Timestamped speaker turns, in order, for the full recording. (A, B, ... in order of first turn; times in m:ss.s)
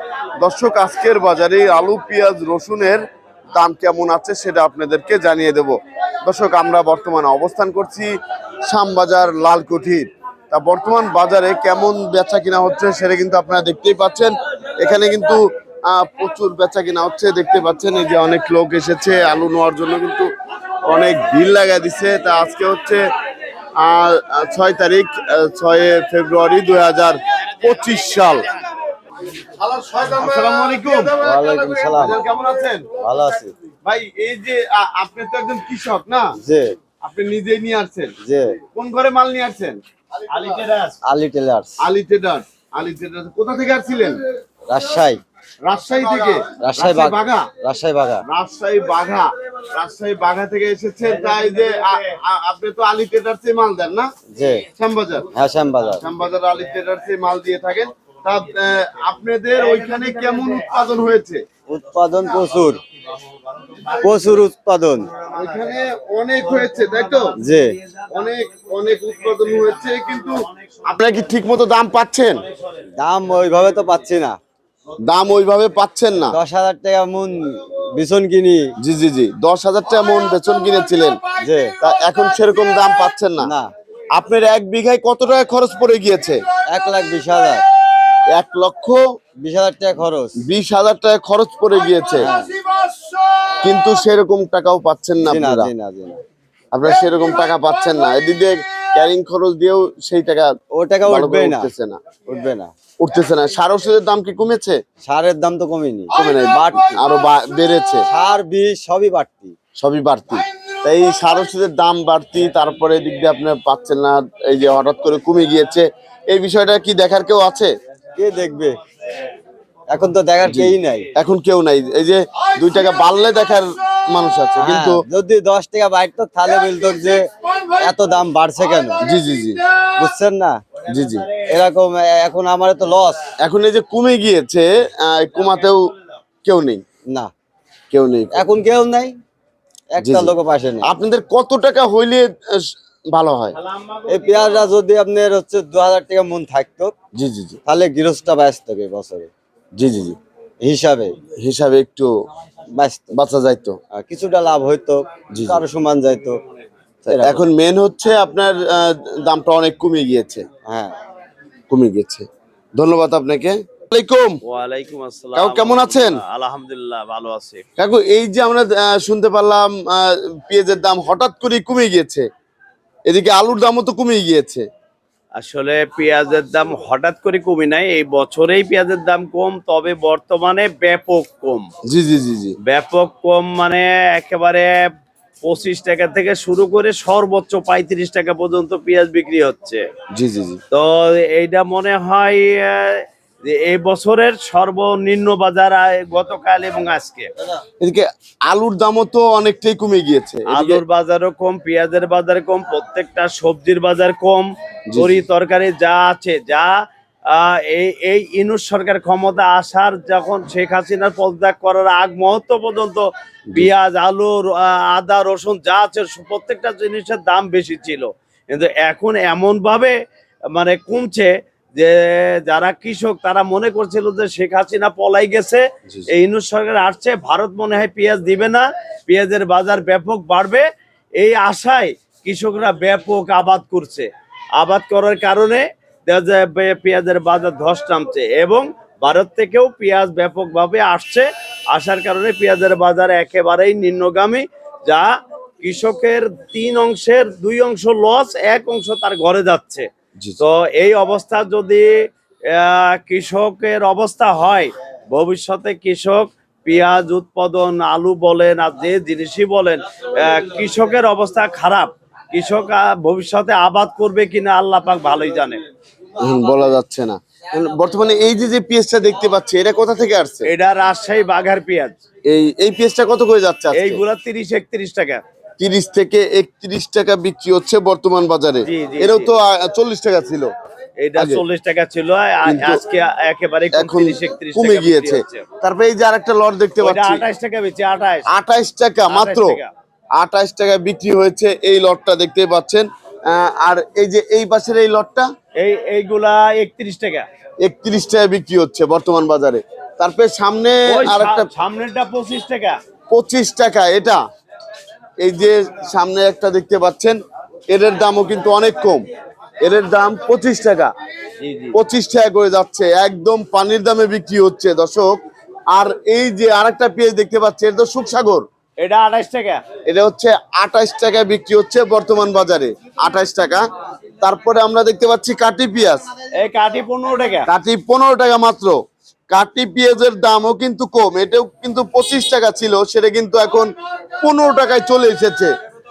0:00.4-0:03.0 A
0:03.6-0:08.1 A
0:08.7-0:20.3 A
0:20.8-0:23.0 A
0:23.8-0:28.5 A
0:29.6-0:32.9 A
0:30.2-0:31.1 B
0:31.2-0:32.2 C
0:33.0-0:33.5 C
0:33.8-0:36.3 A
0:36.4-0:36.8 C
0:37.0-0:38.2 A
0:38.2-0:38.6 C
0:38.7-0:39.8 A
0:40.3-0:41.0 B
0:41.0-0:41.8 C
0:41.8-0:44.2 A
0:44.7-0:45.2 C
0:45.6-0:47.5 A
0:46.6-0:48.2 C
0:48.2-0:54.1 A
0:51.0-0:52.2 B
0:54.3-0:54.6 C
0:54.7-0:55.3 A
0:55.3-0:56.0 C
0:56.0-1:01.4 A
0:59.6-1:00.7 B
1:01.7-1:02.8 C
1:03.5-1:04.4 B
1:04.0-1:05.1 C
1:05.1-1:05.7 B
1:05.3-1:07.4 A
1:06.8-1:10.8 B
1:07.4-1:07.8 C
1:08.1-1:12.4 A
1:12.4-1:12.9 B
1:13.0-1:14.4 C
1:15.1-1:16.4 A
1:16.3-1:18.6 C
1:18.8-1:21.2 A
1:21.4-1:21.7 C
1:21.8-1:23.5 A
1:23.4-1:23.7 C
1:24.2-1:26.4 A
1:26.7-1:27.6 C
1:28.4-1:29.0 A
1:29.4-1:30.4 C
1:30.4-1:32.3 A
1:32.2-1:32.5 C
1:33.6-1:35.7 A
1:35.2-1:36.2 C
1:36.7-1:40.5 A
1:40.7-1:41.7 C
1:41.1-1:42.0 A
1:42.3-1:42.7 C
1:43.0-1:44.8 A
1:45.0-1:47.0 C
1:46.1-1:48.1 A
1:48.1-1:49.6 C
1:49.8-1:57.7 A
1:58.2-1:58.8 C
1:59.9-2:01.1 C
2:00.4-2:05.0 A
2:04.6-2:09.0 C
2:09.0-2:09.6 A
2:10.0-2:10.6 C
2:10.8-2:11.6 B
2:10.9-2:11.3 A
2:11.5-2:13.3 C
2:13.4-2:15.9 A
2:15.4-2:16.2 B
2:16.4-2:16.8 A
2:17.9-2:18.5 A
2:18.3-2:19.2 C
2:19.9-2:20.9 C
2:20.0-2:23.6 A
2:23.6-2:24.7 B
2:24.1-2:26.9 C
2:27.2-2:27.6 A
2:27.7-2:29.3 C
2:29.8-2:30.2 A
2:30.6-2:31.2 C
2:31.4-2:32.1 A
2:32.8-2:33.2 C
2:33.1-2:33.8 A
2:33.9-2:36.4 C
2:35.3-2:35.6 A
2:37.1-2:37.5 C
2:37.1-2:40.4 A
2:40.6-2:41.0 C
2:41.7-2:42.3 A
2:42.8-2:44.4 A
2:44.4-2:47.6 B
2:45.4-2:46.2 A
2:47.8-2:52.3 A
2:53.1-2:54.7 A
2:55.4-3:01.7 B
3:01.9-3:02.6 A
3:02.6-3:04.9 B
3:05.4-3:09.8 B
3:10.2-3:10.6 A
3:10.7-3:17.3 B
3:17.8-3:20.8 A
3:20.5-3:26.8 B
3:24.9-3:25.2 A
3:27.3-3:40.0 B
3:40.6-3:50.7 B
3:51.2-4:05.1 B
4:05.6-4:09.9 B
4:10.4-4:11.9 B
4:12.5-4:25.6 B
4:26.2-4:30.5 A
4:30.5-4:32.0 B
4:32.3-4:34.0 A
4:33.8-4:35.2 B
4:35.6-4:40.5 A
4:38.7-4:39.3 B
4:41.0-4:45.5 B
4:41.2-4:41.4 A
4:42.5-4:42.8 A
4:43.7-4:47.2 A
4:46.8-4:48.3 B
4:48.3-4:49.6 A
4:49.1-4:49.7 B
4:50.2-4:55.3 A
4:55.6-4:57.3 B
4:57.6-5:01.5 A
5:00.9-5:02.8 B
5:03.1-5:04.2 A
5:05.2-5:07.2 A
5:07.7-5:09.0 A
5:09.6-5:10.9 A
5:11.4-5:11.8 B
5:11.7-5:15.2 A
5:15.7-5:18.4 A
5:18.8-5:19.6 B
5:19.9-5:23.6 A
5:24.2-5:26.0 A
5:26.4-5:27.5 B
5:27.5-5:28.8 A
5:29.3-5:33.7 A
5:34.2-5:35.5 A